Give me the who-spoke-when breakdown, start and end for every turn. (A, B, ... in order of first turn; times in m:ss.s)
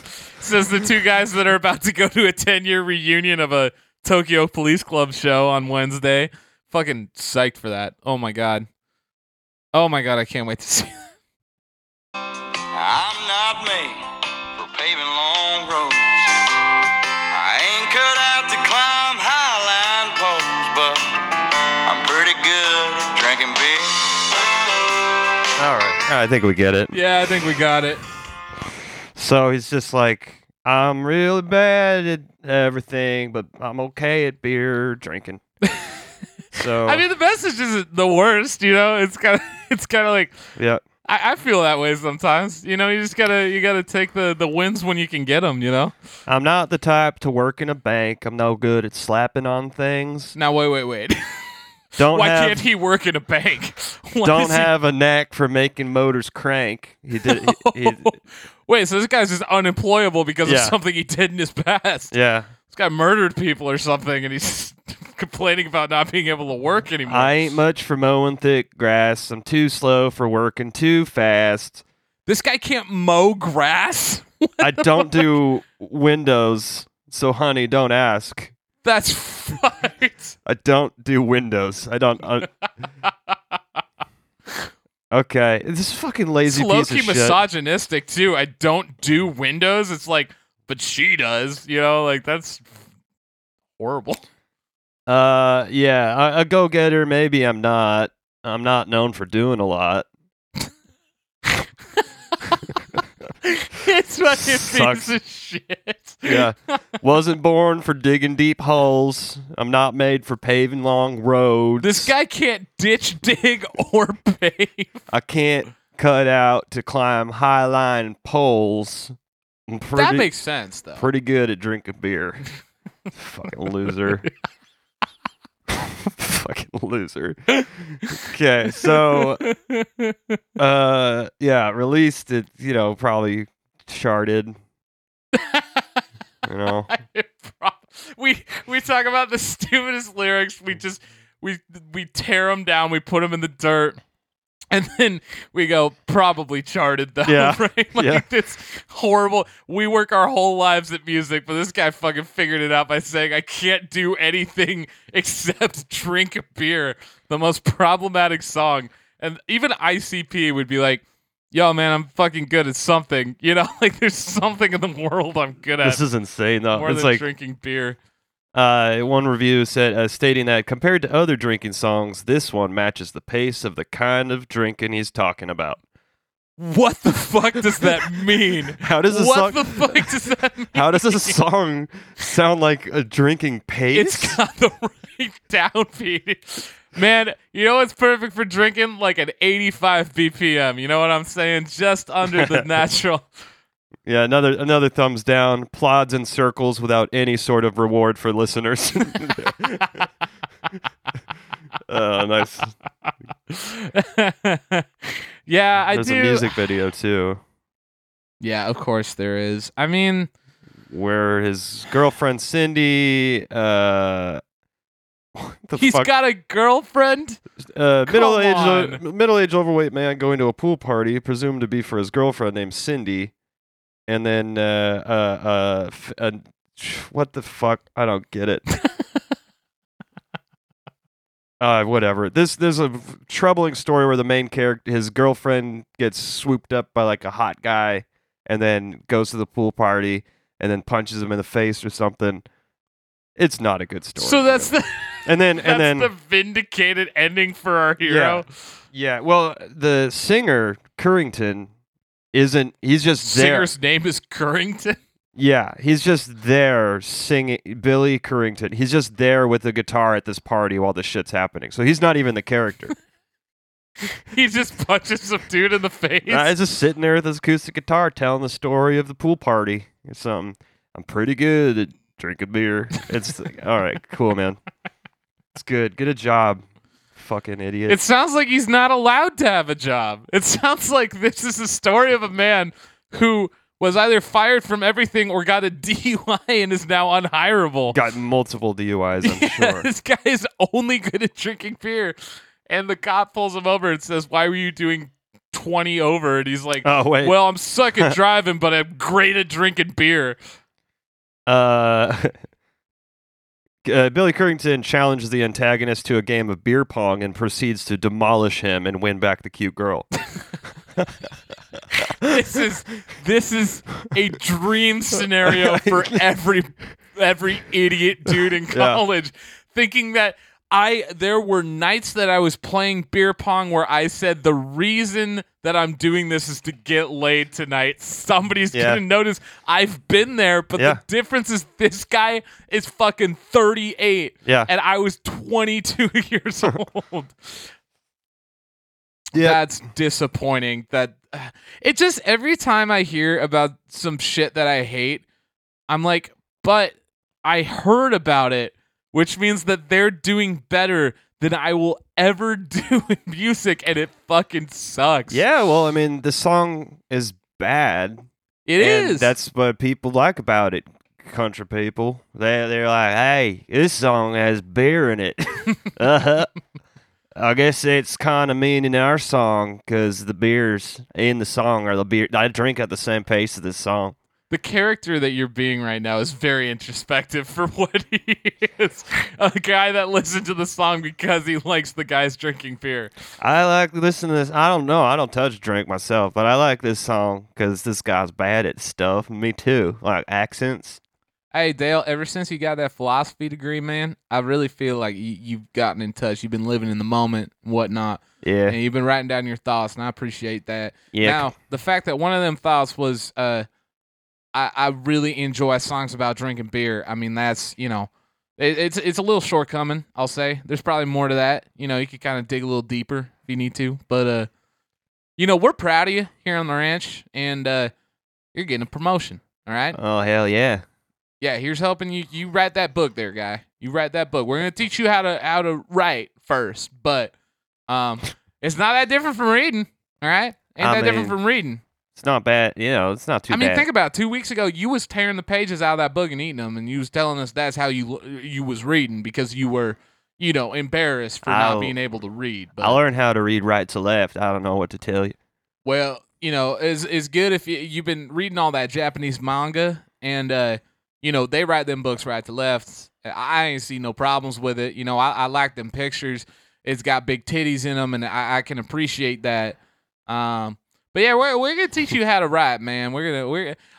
0:00.3-0:08.7 A
0:09.7-0:11.1 A
0:12.7-0:16.4 B
0:17.3-0:24.8 B
0:25.6-0:26.9 C
0:26.9-0:28.0 A
0:29.1-0:35.4 C
0:35.6-0:36.1 A
0:36.5-0:37.0 C
0:36.8-0:40.4 A
0:40.6-0:40.8 C
0:41.1-0:45.9 A
0:46.3-0:50.3 C
0:50.4-0:51.5 A
0:52.0-0:52.6 C
0:52.1-0:54.7 A
0:54.2-0:58.2 C
0:57.2-1:02.1 A
1:00.4-1:00.7 C
1:02.1-1:02.5 C
1:02.7-1:07.3 A
1:07.0-1:11.8 C
1:12.3-1:15.3 A
1:14.6-1:18.5 C
1:18.8-1:20.3 A
1:20.4-1:22.5 C
1:23.0-1:23.3 A
1:25.1-1:27.4 C
1:26.4-1:32.7 A
1:33.8-1:34.2 A
1:35.1-1:40.1 C
1:42.3-1:42.7 A
1:43.4-1:46.8 A
1:44.3-1:45.1 C
1:46.2-1:52.1 C
1:51.8-1:55.0 A
1:55.1-1:59.1 C
1:59.7-2:00.3 C
1:59.9-2:01.1 A
2:01.0-2:02.4 C
2:03.1-2:04.2 C
2:05.7-2:09.4 C
2:08.8-2:10.4 A
2:10.6-2:14.6 C
2:15.3-2:16.0 A
2:16.4-2:16.9 C
2:16.9-2:24.0 A
2:24.7-2:46.0 A
2:27.2-2:28.2 C
2:45.8-2:47.2 C
2:46.7-2:48.0 A
2:48.5-2:55.8 C
2:56.6-3:01.4 A
2:57.8-2:58.0 C
2:58.7-3:00.2 C
3:00.7-3:04.4 C
3:03.9-3:13.2 A
3:12.3-3:12.7 C
3:14.0-3:20.0 C
3:21.9-3:22.7 C
3:23.1-3:26.5 A
3:25.9-3:27.4 C
3:28.4-3:30.3 A
3:30.9-3:34.4 C
3:35.3-3:36.1 C
3:35.8-3:37.4 A
3:37.6-3:43.3 C
3:38.1-3:39.0 A
3:44.1-3:48.6 C
3:48.8-3:49.0 A
3:51.6-4:02.4 C
4:03.4-4:04.7 C
4:04.2-4:08.5 A
4:05.2-4:06.1 C
4:08.0-4:11.7 C
4:12.3-4:13.7 C
4:13.2-4:15.0 A
4:15.3-4:22.9 C
4:24.2-4:26.5 A
4:26.3-4:34.6 C
4:35.5-4:36.6 C
4:37.2-4:38.0 C
4:37.9-4:48.0 A
4:47.9-4:49.9 C
4:49.2-5:00.4 A
4:56.8-4:57.3 C
5:01.5-5:02.4 C
5:03.8-5:10.1 C
5:12.2-5:37.7 A
5:15.4-5:16.2 C
5:18.7-5:19.0 C
5:28.7-5:29.0 C
5:39.3-5:39.6 C
5:39.3-5:45.2 A
5:45.9-5:55.4 A
5:55.3-5:58.2 C
5:58.6-5:59.3 A
5:58.8-6:06.5 C
6:07.4-6:14.2 C
6:14.5-6:23.1 A
6:23.4-6:31.0 C
6:31.5-6:43.6 A
6:38.4-6:38.8 C
6:41.1-6:41.5 C
6:44.5-6:54.5 A
6:55.4-6:57.9 A
6:58.5-7:00.0 A
6:59.9-7:00.8 C
7:01.4-7:07.3 A
7:07.9-7:11.8 A
7:10.8-7:11.4 C
7:12.1-7:13.8 C
7:13.5-7:23.0 A
7:21.4-7:22.0 C
7:22.8-7:25.4 C
7:25.8-7:43.8 A